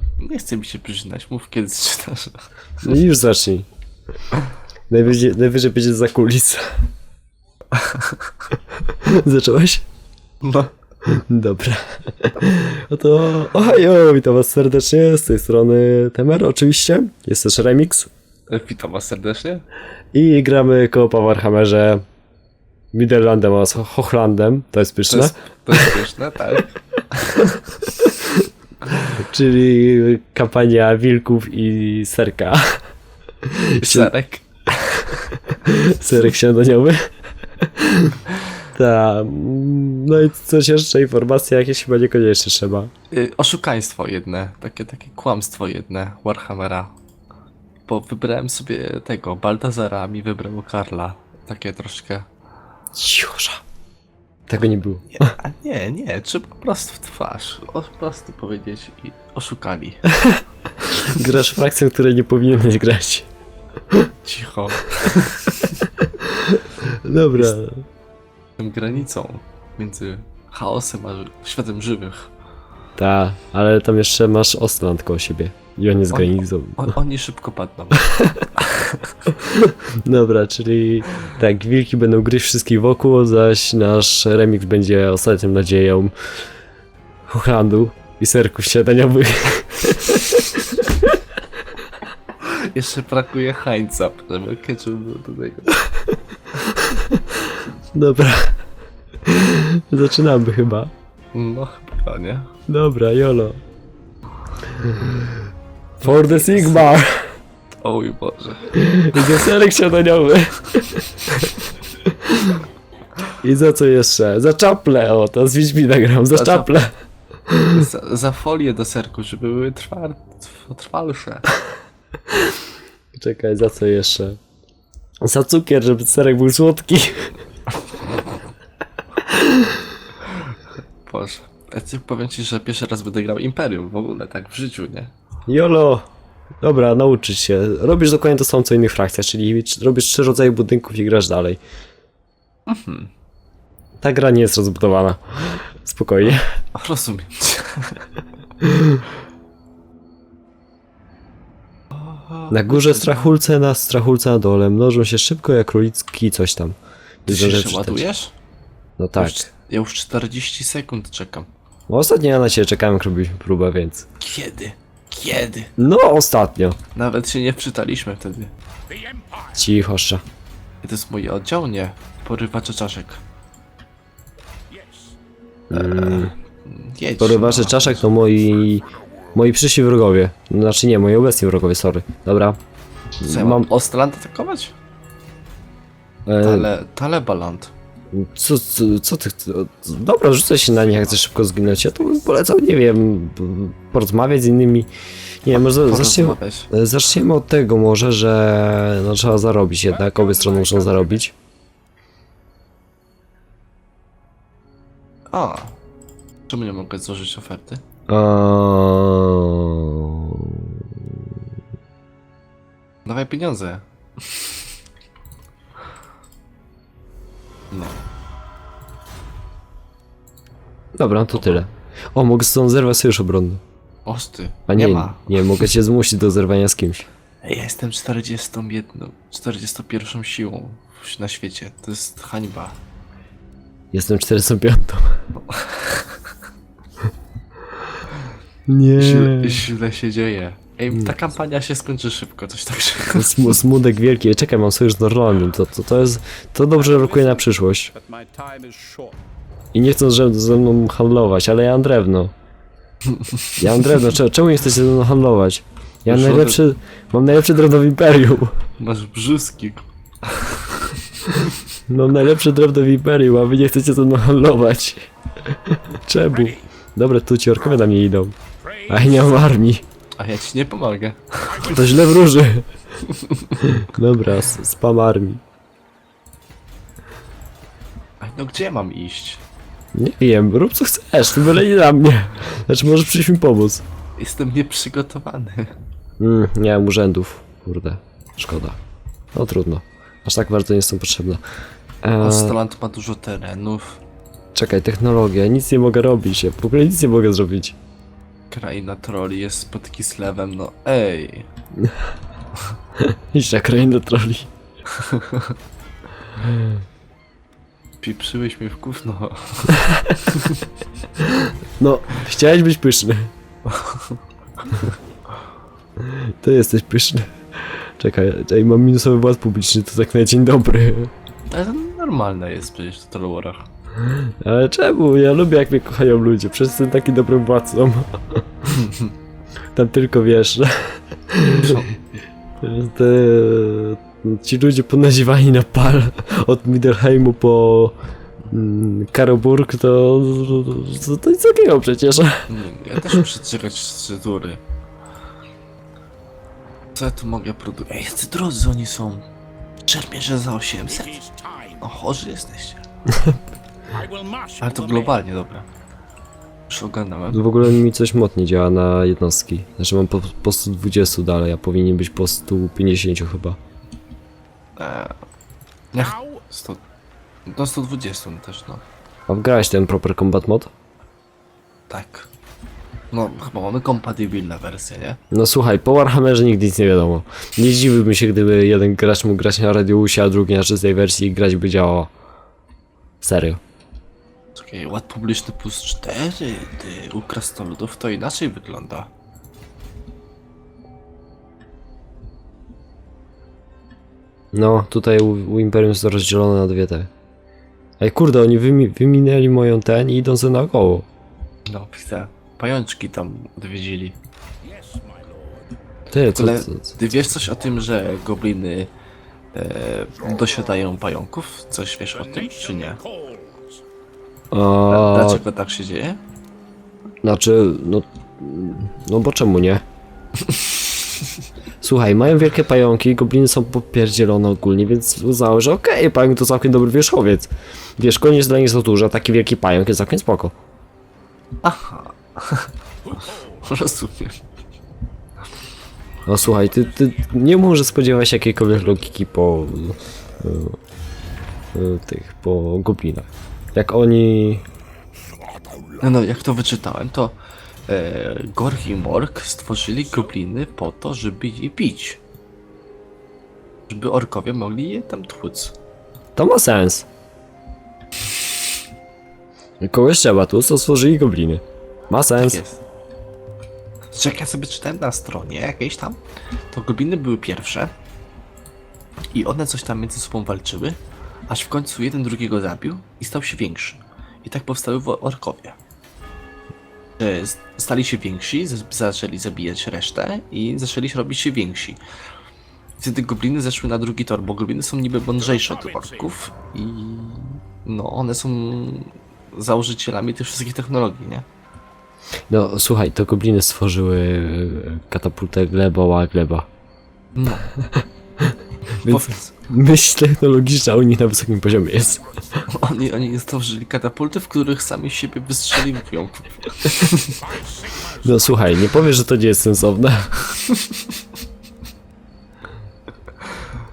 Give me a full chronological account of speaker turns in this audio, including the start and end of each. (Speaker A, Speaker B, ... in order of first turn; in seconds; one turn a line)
Speaker A: 0.2-2.5
Speaker B: 2.8-3.7
Speaker B: 4.9-6.8
Speaker A: 7.7-8.4
Speaker B: 8.9-9.8
Speaker A: 10.4-10.7
Speaker B: 11.0-18.1
Speaker A: 18.5-19.6
Speaker B: 20.1-22.0
Speaker B: 22.9-26.0
Speaker A: 25.1-28.0
Speaker B: 29.1-32.8
Speaker B: 33.4-34.1
Speaker A: 33.8-35.5
Speaker B: 35.6-42.9
Speaker A: 43.1-46.9
Speaker A: 47.9-52.3
Speaker B: 53.0-53.6
Speaker B: 54.5-55.3
Speaker A: 55.1-60.1
Speaker B: 60.1-63.3
Speaker A: 64.2-65.9
Speaker B: 66.0-67.8
Speaker A: 68.6-72.3
Speaker B: 73.0-77.0
Speaker A: 76.1-79.3
Speaker B: 78.0-78.4
Speaker B: 79.4-86.1
Speaker B: 87.3-91.2
Speaker A: 92.4-95.9
Speaker B: 96.8-98.6
Speaker B: 99.2-100.9
Speaker A: 101.3-102.5
Speaker B: 102.7-103.6
Speaker B: 104.7-105.4
Speaker B: 106.0-107.3
Speaker A: 106.0-106.9
Speaker A: 107.8-109.4
Speaker B: 108.8-111.5
Speaker A: 111.3-111.6
Speaker B: 112.0-112.7
Speaker B: 113.4-116.9
Speaker A: 116.3-116.8
Speaker B: 117.5-117.9
Speaker A: 117.7-121.5
Speaker B: 122.3-122.6
Speaker B: 123.1-124.4
Speaker B: 125.2-127.4
Speaker B: 129.2-129.8
Speaker A: 130.2-135.1
Speaker B: 135.5-136.1
Speaker B: 136.6-141.6
Speaker A: 142.7-143.1
Speaker B: 144.0-146.5
Speaker A: 146.7-148.1
Speaker B: 148.6-149.0
Speaker A: 151.9-153.1
Speaker B: 152.5-158.1
Speaker A: 157.3-158.3
Speaker B: 159.0-159.4
Speaker A: 159.2-161.5
Speaker B: 161.9-164.1
Speaker A: 164.2-165.7
Speaker B: 165.8-166.8
Speaker A: 166.9-168.5
Speaker C: 168.9-169.6
Speaker B: 169.5-170.2
Speaker A: 170.8-173.2
Speaker C: 174.7-175.1
Speaker B: 175.7-176.3
Speaker A: 175.7-178.1
Speaker B: 177.2-182.6
Speaker B: 183.2-183.7
Speaker A: 183.2-184.8
Speaker B: 186.3-186.7
Speaker A: 186.4-187.7
Speaker B: 188.1-194.9
Speaker B: 195.4-201.3
Speaker A: 195.5-196.7
Speaker C: 200.0-201.2
Speaker A: 205.3-205.8
Speaker A: 206.5-207.8
Speaker B: 208.1-211.4
Speaker A: 213.1-214.6
Speaker A: 217.7-218.0
Speaker B: 220.9-223.6
Speaker A: 224.1-225.6
Speaker B: 224.7-227.1
Speaker A: 227.4-232.8
Speaker B: 233.9-235.2
Speaker A: 235.4-236.3
Speaker B: 238.7-239.7
Speaker A: 239.0-243.5
Speaker B: 243.2-247.9
Speaker C: 246.8-249.2
Speaker B: 249.7-252.3
Speaker A: 253.1-253.6
Speaker B: 253.6-258.6
Speaker A: 256.1-256.6
Speaker A: 258.8-261.6
Speaker B: 261.9-268.4
Speaker C: 268.7-269.2
Speaker B: 268.9-269.8
Speaker A: 270.2-271.9
Speaker B: 271.6-272.7
Speaker A: 273.0-273.7
Speaker B: 273.6-275.4
Speaker A: 278.2-279.4
Speaker B: 279.9-283.8
Speaker A: 284.2-285.8
Speaker B: 286.2-288.8
Speaker B: 289.3-291.4
Speaker B: 292.0-292.6
Speaker A: 292.2-294.0
Speaker B: 294.6-297.8
Speaker A: 298.5-301.5
Speaker B: 301.8-302.1
Speaker B: 303.0-304.5
Speaker A: 304.9-305.6
Speaker B: 306.4-306.7
Speaker A: 308.0-310.7
Speaker B: 311.2-313.3
Speaker A: 313.7-315.0
Speaker B: 316.0-321.1
Speaker A: 321.5-323.7
Speaker B: 324.0-328.8
Speaker A: 328.7-329.1
Speaker B: 329.7-331.9
Speaker A: 331.4-332.1
Speaker B: 332.6-338.0
Speaker B: 338.5-342.5
Speaker A: 342.5-344.6
Speaker A: 346.9-349.3
Speaker A: 349.9-351.2
Speaker C: 350.9-351.8
Speaker A: 351.8-352.8
Speaker B: 353.1-353.4
Speaker C: 353.9-355.1
Speaker A: 354.6-355.7
Speaker A: 356.7-357.4
Speaker B: 357.3-363.6
Speaker A: 364.8-365.2
Speaker A: 365.9-366.8
Speaker C: 366.1-366.4
Speaker A: 367.5-368.8
Speaker B: 369.3-370.7
Speaker A: 371.9-372.3
Speaker A: 373.1-375.2
Speaker B: 375.3-382.1
Speaker B: 383.2-383.6
Speaker A: 384.6-389.1
Speaker B: 394.5-397.1
Speaker B: 398.0-401.1
Speaker A: 401.7-404.2
Speaker C: 404.6-405.6
Speaker B: 406.1-407.0
Speaker A: 406.3-408.9
Speaker A: 409.5-413.0
Speaker C: 412.2-413.8
Speaker B: 414.5-415.4
Speaker A: 414.9-416.2
Speaker B: 417.2-419.8
Speaker A: 420.4-421.3
Speaker B: 421.8-430.6
Speaker A: 431.6-434.4
Speaker C: 433.1-433.5
Speaker B: 436.3-440.8
Speaker B: 441.7-444.6
Speaker A: 446.0-447.4
Speaker A: 447.9-452.2
Speaker A: 453.9-455.8
Speaker B: 456.4-457.1
Speaker B: 459.8-462.6
Speaker A: 462.4-462.8
Speaker A: 464.1-466.2
Speaker A: 466.7-467.9
Speaker A: 469.3-471.0
Speaker A: 471.5-475.8
Speaker A: 477.2-482.0
Speaker A: 483.0-491.5
Speaker C: 485.6-486.2
Speaker B: 492.5-496.7
Speaker A: 497.4-497.7
Speaker B: 497.8-502.6
Speaker A: 498.9-499.5
Speaker A: 502.6-507.5
Speaker C: 507.4-508.2
Speaker B: 508.1-510.4
Speaker A: 510.5-511.2
Speaker A: 513.4-513.7